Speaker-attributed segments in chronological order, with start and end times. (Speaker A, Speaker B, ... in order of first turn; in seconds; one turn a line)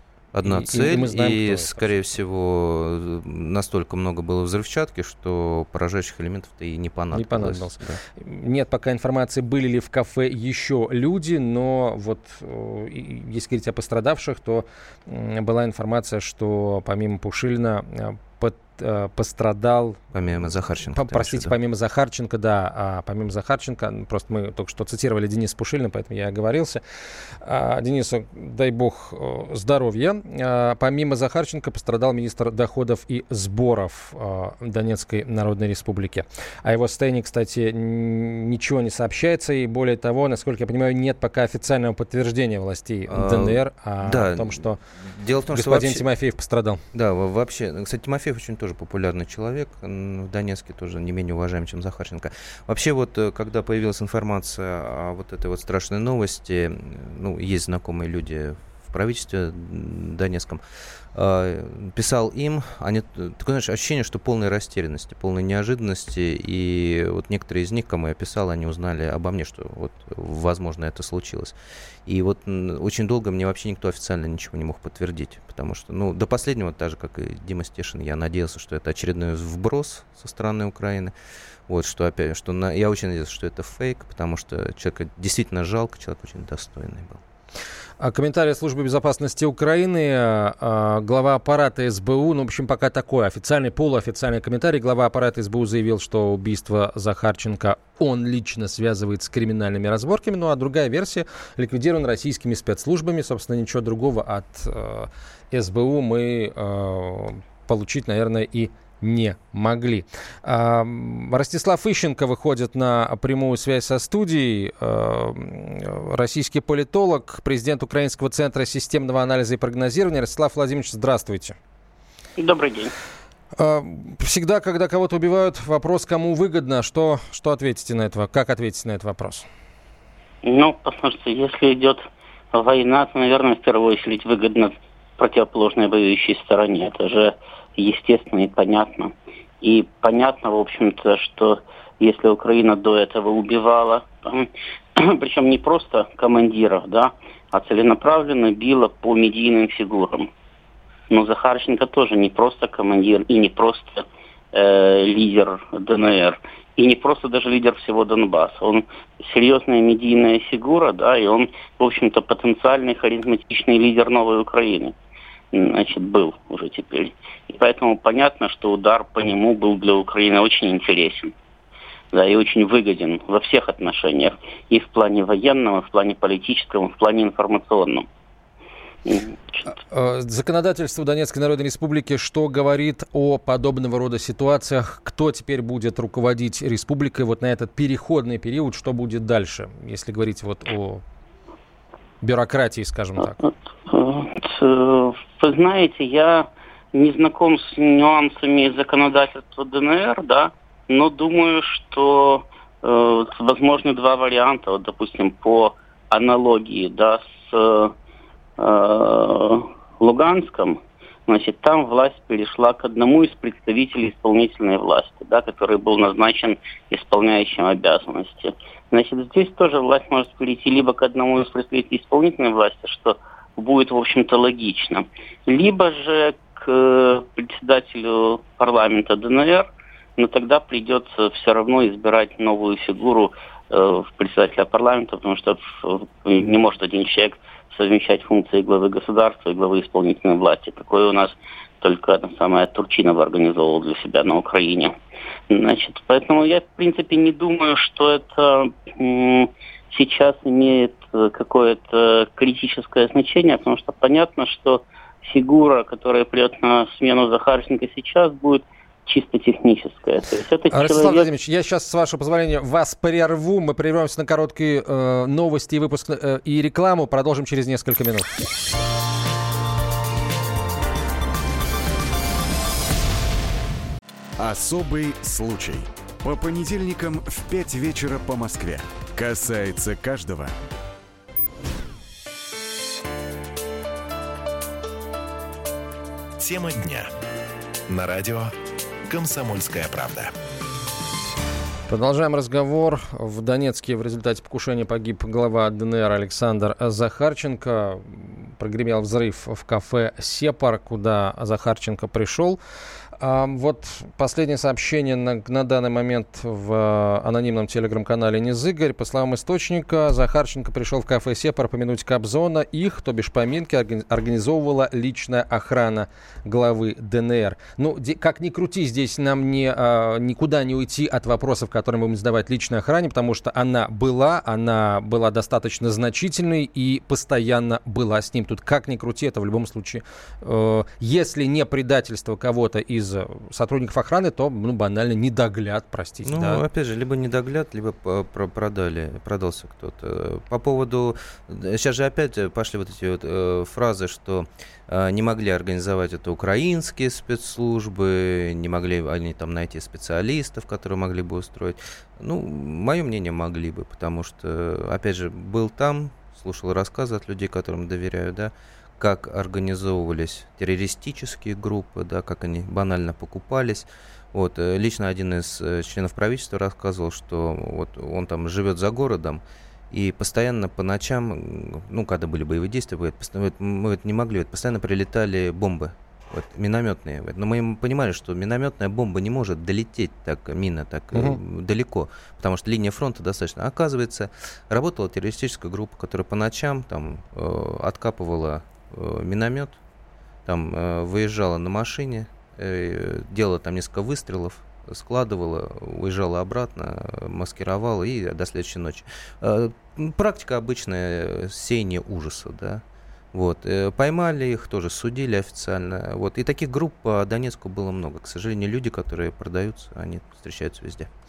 Speaker A: 0.3-8.0
Speaker B: 0.5-2.0
Speaker B: 7.1-20.0
Speaker A: 20.1-21.5
Speaker B: 20.9-26.8
Speaker B: 27.4-44.8
Speaker A: 43.1-46.0
Speaker B: 45.5-46.8
Speaker A: 46.9-60.6
Speaker A: 61.1-81.1
Speaker A: 81.7-87.2
Speaker B: 88.0-121.6
Speaker C: 122.4-122.9
Speaker B: 123.6-129.5
Speaker C: 130.4-150.3
Speaker C: 151.1-164.9
Speaker C: 165.5-171.3
Speaker C: 172.1-178.1
Speaker C: 179.1-179.7
Speaker B: 179.8-191.0
Speaker B: 192.2-193.5
Speaker C: 193.9-207.9
Speaker C: 208.6-244.9
Speaker C: 245.5-261.3
Speaker B: 260.7-268.3
Speaker D: 274.4-280.6
Speaker E: 286.4-287.1
Speaker E: 287.9-288.6
Speaker E: 289.1-290.3
Speaker B: 291.9-302.6
Speaker B: 303.2-336.6
Speaker A: 336.2-389.8
Speaker A: 390.5-411.1